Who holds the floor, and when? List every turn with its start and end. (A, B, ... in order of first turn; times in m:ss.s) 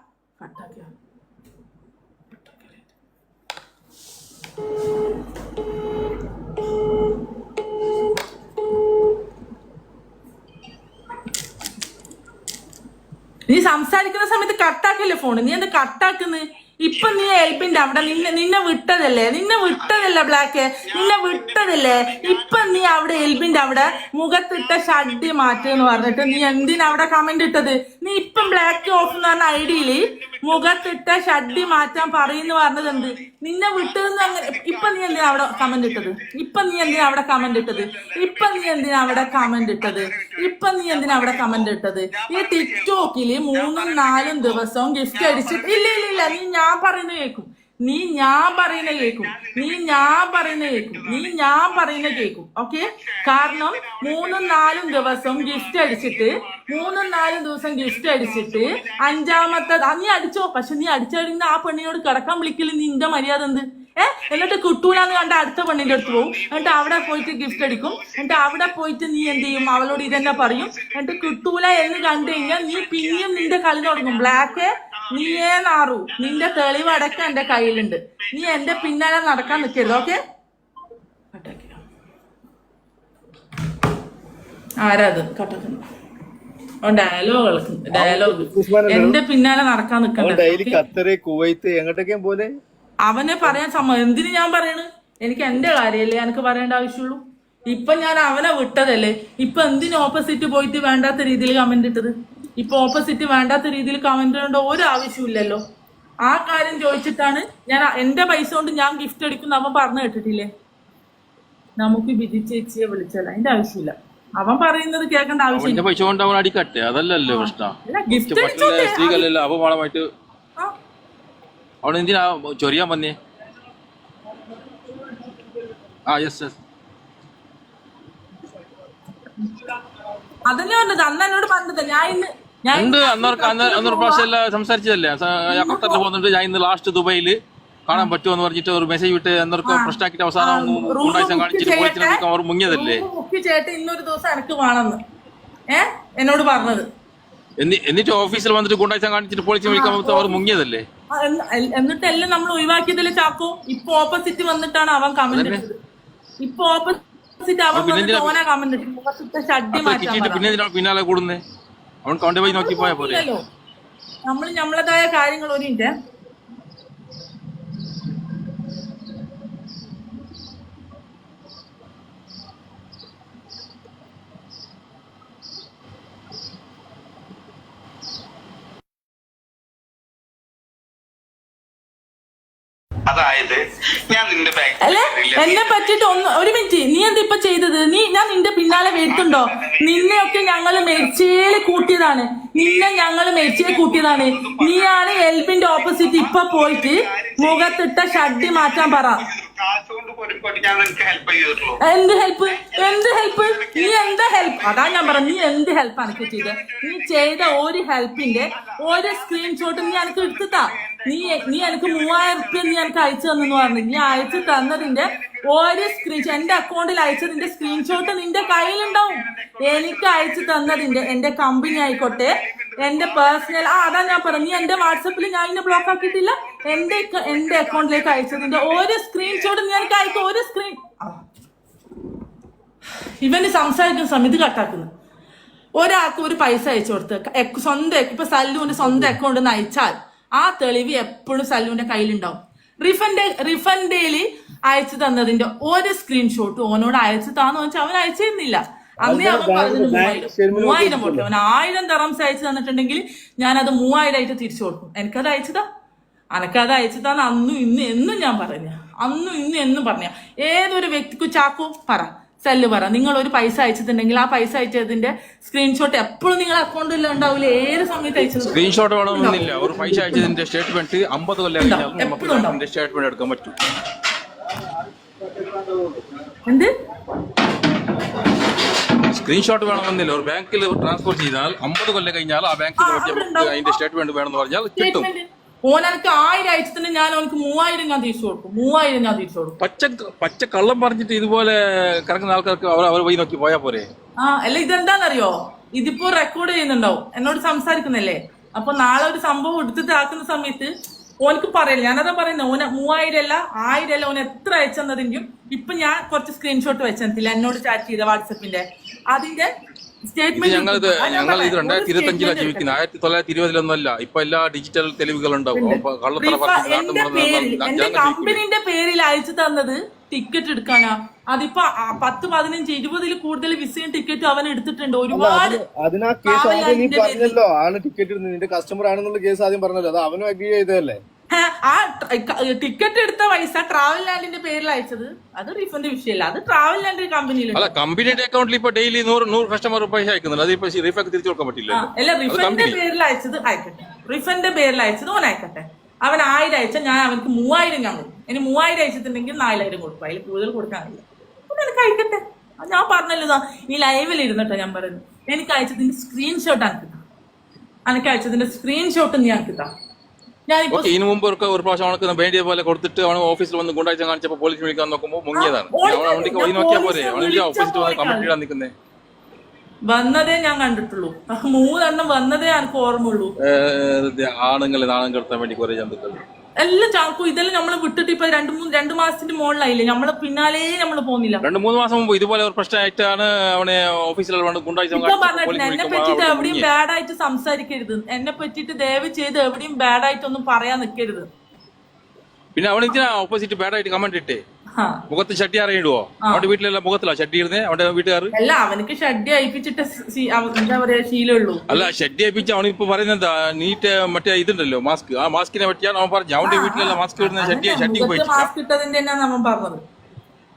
0:00.4-0:00.9 A
0:02.3-0:02.8 A
0:13.5-1:20.2 A
0:41.1-0:41.4 B
0:43.8-0:44.1 B
0:45.7-0:46.2 B
0:54.3-0:55.3 B
1:21.3-1:21.8 A
1:24.8-1:25.8 A
1:26.8-1:30.8 A
1:27.9-1:29.2 C
1:30.2-1:32.5 C
1:33.1-1:45.6 A
1:46.2-1:50.5 A
1:51.8-1:55.8 A
1:55.5-2:00.1 B
1:57.2-1:59.3 A
2:01.8-2:03.2 B
2:06.1-2:06.6 B
2:10.4-2:14.3 A
2:12.8-2:23.0 B
2:15.5-2:16.0 A
2:19.6-2:25.0 A
2:25.7-2:26.9 A
2:27.6-2:30.8 B
2:29.7-2:30.4 A
2:31.1-2:35.8 A
2:35.3-2:35.6 B
2:36.4-2:40.6 A
2:37.7-2:38.4 B
2:39.7-2:41.4 B
2:42.0-2:43.3 B
2:42.4-2:43.4 A
2:44.2-2:45.9 A
3:03.1-3:05.2 D
3:04.8-3:19.3 A
3:19.3-3:21.8 D
3:21.8-3:51.2 A
3:46.9-3:47.6 B
3:48.2-3:48.6 B
3:53.2-3:54.9 A
3:55.8-4:15.6 A
3:58.8-3:59.1 C
4:09.0-4:11.3 C
4:16.3-4:30.3 A
4:28.4-4:33.5 B
4:31.6-4:32.6 A
4:36.4-4:36.7 A
4:39.1-4:45.1 B
4:42.8-4:43.8 A
4:44.8-4:49.6 A
4:49.6-4:53.9 B
4:54.2-5:00.7 A
5:01.2-5:09.5 A
5:10.1-5:12.8 A
5:10.3-5:18.4 B
5:15.6-5:25.6 A
5:25.1-5:31.0 C
5:26.2-5:27.4 A
5:31.3-5:37.8 A
5:37.5-5:42.8 B
5:41.7-5:57.0 A
5:57.9-5:59.7 A
6:00.5-6:00.9 A
6:00.7-6:08.7 B
6:05.3-6:08.3 A
6:09.9-6:13.3 A
6:13.4-6:16.2 B
6:16.6-6:21.4 A
6:21.4-6:26.7 B
6:24.9-6:31.3 A
6:32.6-6:34.4 B
6:34.8-6:35.0 A
6:35.1-6:38.3 B
6:36.2-6:36.5 A
6:38.3-6:41.9 A
6:41.7-6:48.5 B
6:46.4-6:49.8 A